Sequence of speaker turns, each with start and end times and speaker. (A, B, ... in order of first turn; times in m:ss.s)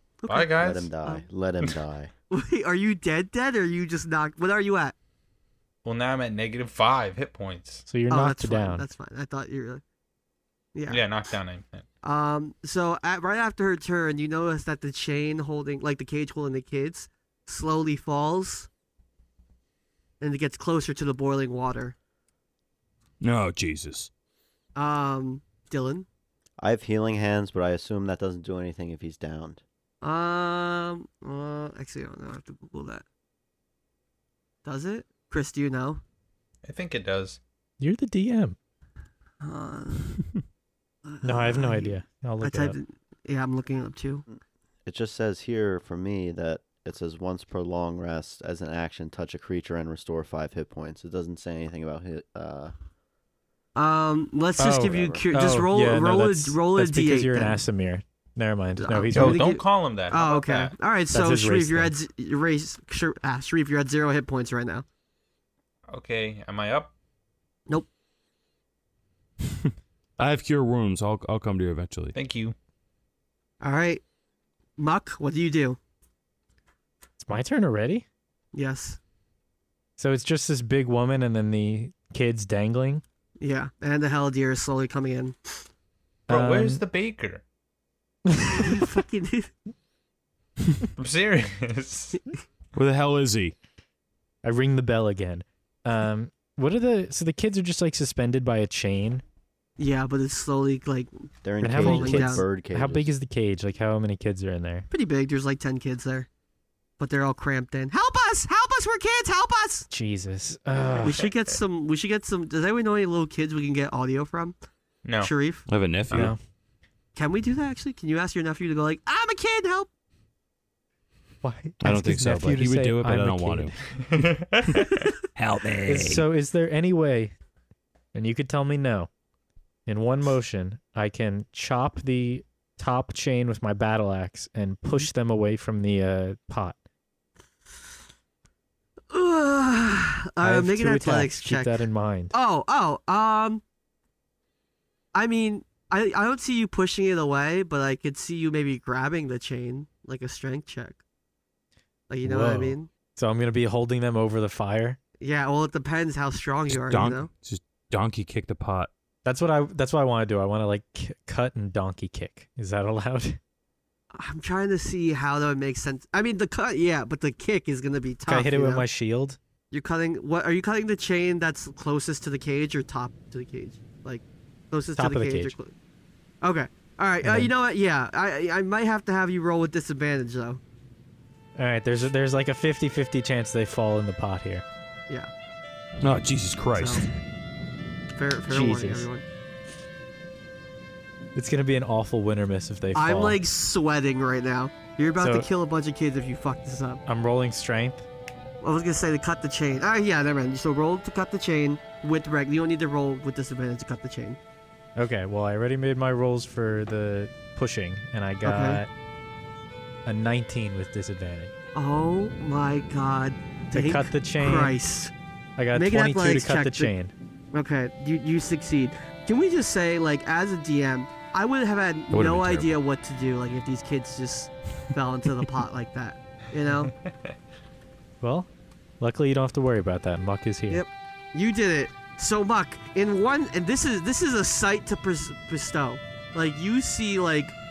0:00.2-0:01.2 A
0:00.3-0:00.9 B
0:00.6-0:02.1 C
0:02.3-0:05.0 A
0:05.8-0:07.9 B
0:07.9-0:08.8 D
0:08.1-0:09.8 A
0:10.8-0:11.0 A
0:10.9-0:11.9 B
0:12.0-0:18.7 A
0:20.2-0:22.0 A
0:23.2-0:24.1 E
0:24.8-0:26.1 A
0:26.6-0:29.6 C
0:30.0-0:33.0 A
0:34.6-0:36.0 A
0:36.6-0:37.4 B
0:37.8-0:38.6 D
0:39.4-0:40.2 A
0:41.1-0:44.3 A
0:41.2-0:42.8 D
0:44.3-0:52.7 C
0:53.8-0:57.6 A
0:54.6-0:59.5 D
0:54.7-0:55.2 C
0:58.8-1:04.9 A
0:59.1-1:00.8 B
1:01.1-1:01.9 D
1:05.9-1:06.9 B
1:10.2-1:12.2 E
1:12.1-1:12.6 B
1:13.6-1:14.0 A
1:14.8-1:15.8 A
1:17.2-1:18.0 D
1:18.5-1:19.0 A
1:20.0-1:23.0 D
1:23.4-1:25.7 A
1:26.3-1:26.8 D
1:26.3-1:27.4 B
1:28.3-1:28.8 D
1:28.5-1:29.5 A
1:31.0-1:32.2 B
1:32.7-1:33.6 E
1:34.4-1:39.2 D
1:39.8-1:42.4 A
1:41.4-1:43.1 C
1:41.6-1:44.9 D
1:44.9-1:46.3 A
1:47.0-1:49.9 A
1:49.9-1:51.3 D
1:51.0-1:54.6 A
1:55.0-1:55.3 B
1:55.2-1:55.6 A
1:55.7-1:56.3 E
1:56.1-1:56.4 D
1:57.2-1:59.9 A
2:01.4-2:03.8 D
2:01.8-2:03.7 E
2:03.9-2:05.0 B
2:05.4-2:06.3 E
2:05.8-2:07.3 D
2:08.1-2:09.1 D
2:09.9-2:16.8 D
2:19.1-2:23.6 A
2:20.4-2:22.3 D
2:25.1-2:31.0 A
2:32.1-2:32.9 A
2:32.2-2:35.0 D
2:35.2-2:37.3 A
2:36.7-2:38.9 E
2:39.2-2:43.4 D
2:44.1-2:48.8 A
2:48.3-2:49.4 D
2:49.7-2:55.7 A
2:55.0-2:55.6 D
2:56.4-3:00.6 A
2:57.2-2:57.5 D
3:01.6-3:04.6 D
3:06.0-3:07.0 E
3:06.8-3:07.1 A
3:08.2-3:09.2 A
3:08.5-3:09.1 D
3:11.4-3:13.4 D
3:12.9-3:17.0 A
3:15.2-3:15.5 D
3:17.1-3:18.1 D
3:18.6-3:24.4 A
3:25.0-3:28.9 D
3:28.4-3:28.8 A
3:30.1-3:31.5 D
3:31.8-3:35.1 A
3:33.7-3:34.8 D
3:35.6-3:37.1 D
3:35.7-3:36.9 A
3:37.5-3:46.9 A
3:42.1-3:42.8 E
3:48.2-3:50.8 D
3:50.7-3:57.6 A